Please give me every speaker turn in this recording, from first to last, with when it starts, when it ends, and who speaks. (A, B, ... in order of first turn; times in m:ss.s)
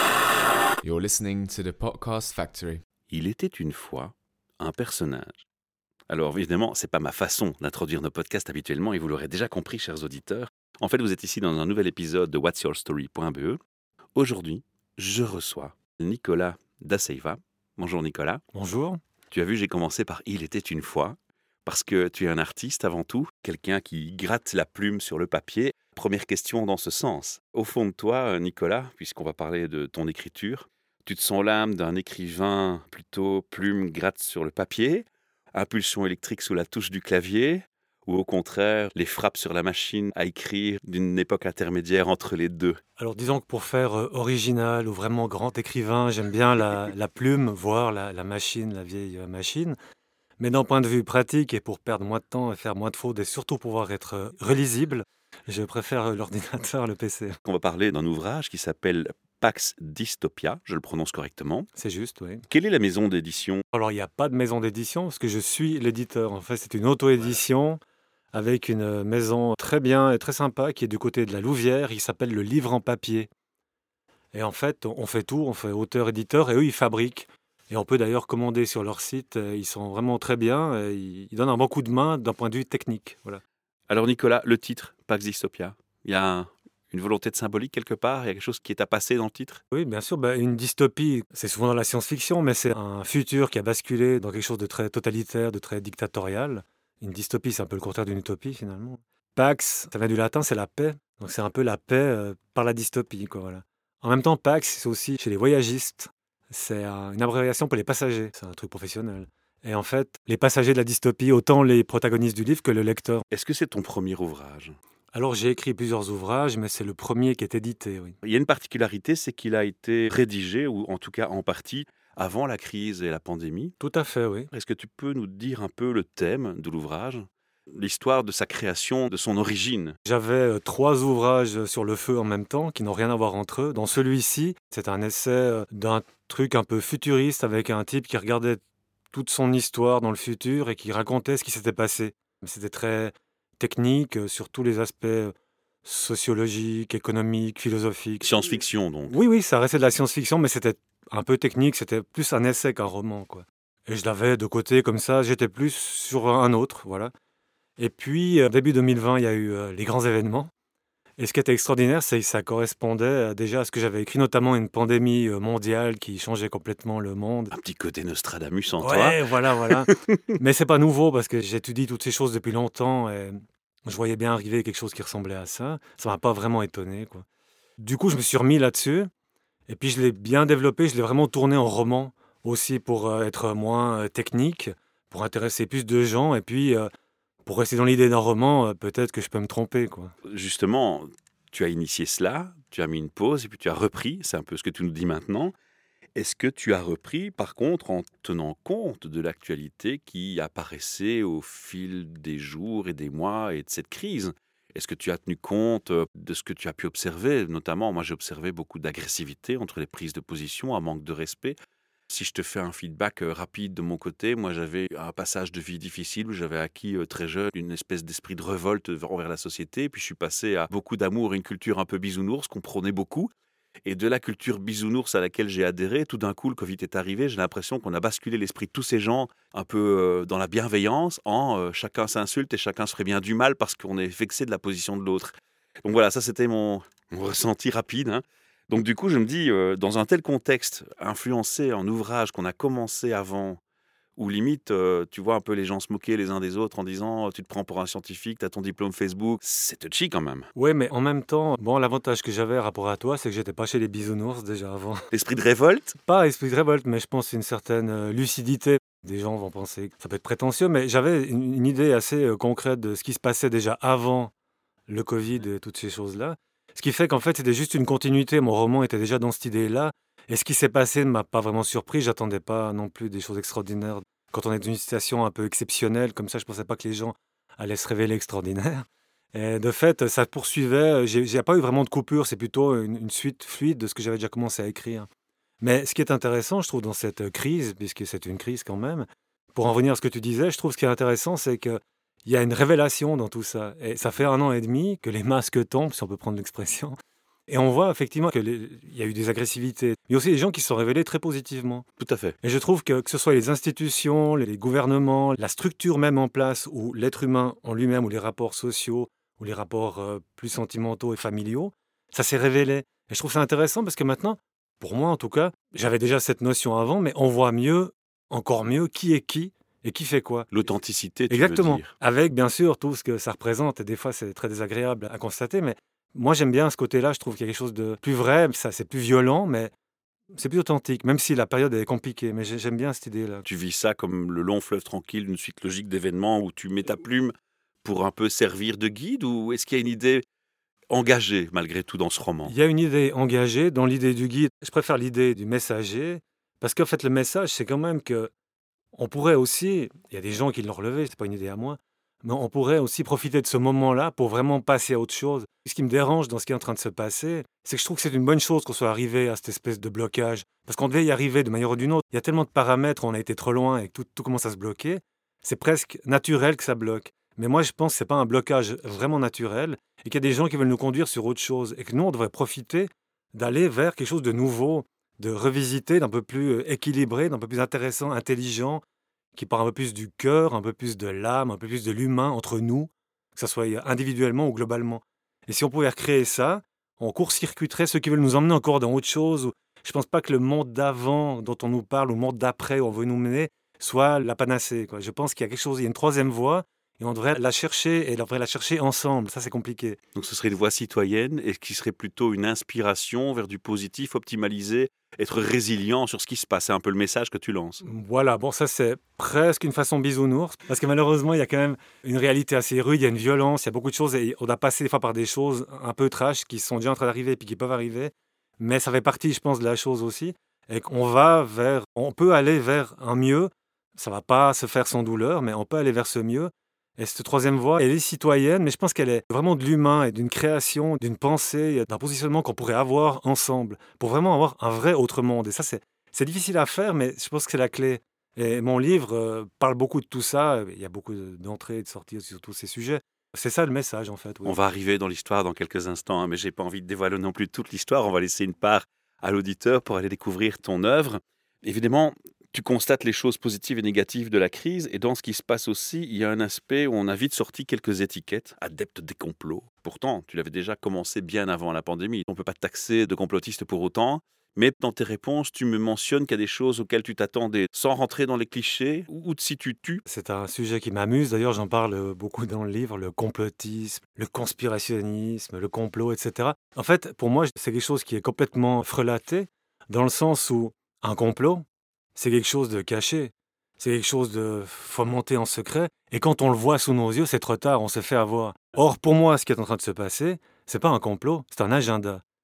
0:00.8-0:02.8 A
0:03.1-0:05.4 B
0:06.1-0:13.6 B
0:14.2-0:18.4 B
0:18.5-0:19.0 C
0:19.3-0:42.8 B
0:43.0-0:49.8 C
0:50.4-0:57.4 C
0:57.4-1:01.7 B
1:01.8-1:02.4 C
1:02.5-1:03.6 B
1:03.7-1:07.8 C
1:08.3-1:13.3 C
1:14.3-1:23.4 C
1:23.9-1:29.6 B
1:29.7-1:53.2 C
1:53.3-1:54.8 B
1:55.1-1:58.2 C
1:58.2-2:03.8 B
2:03.8-2:04.5 C
2:04.5-2:10.0 B
2:10.0-2:25.3 C
2:25.8-2:28.3 C
2:28.2-2:29.2 B
2:29.1-2:37.1 C
2:37.8-2:40.5 C
2:41.2-2:47.5 C
2:47.5-2:50.2 B
2:48.8-2:57.2 C
2:57.8-2:59.1 C
2:59.7-3:06.9 C
3:07.4-3:10.1 C
3:10.2-3:15.5 B
3:16.2-3:31.6 B
3:32.1-3:43.3 B
3:43.8-4:03.6 B
4:04.2-4:10.5 B
4:10.6-4:15.0 C
4:15.1-4:16.0 B
4:16.1-4:24.3 C
4:24.9-4:45.1 C
4:45.6-4:57.0 C
4:57.5-5:01.8 C
5:02.0-5:02.3 B
5:02.4-5:20.5 C
5:20.5-5:21.9 B
5:21.3-5:29.7 C
5:30.3-5:33.4 C
5:33.4-5:40.2 B
5:40.9-5:42.5 B
5:42.4-5:48.3 C
5:48.9-6:18.8 C
6:19.3-6:40.0 C
6:40.1-6:47.8 B
6:47.8-7:24.6 C
7:24.4-7:50.0 B
7:50.1-8:12.2 C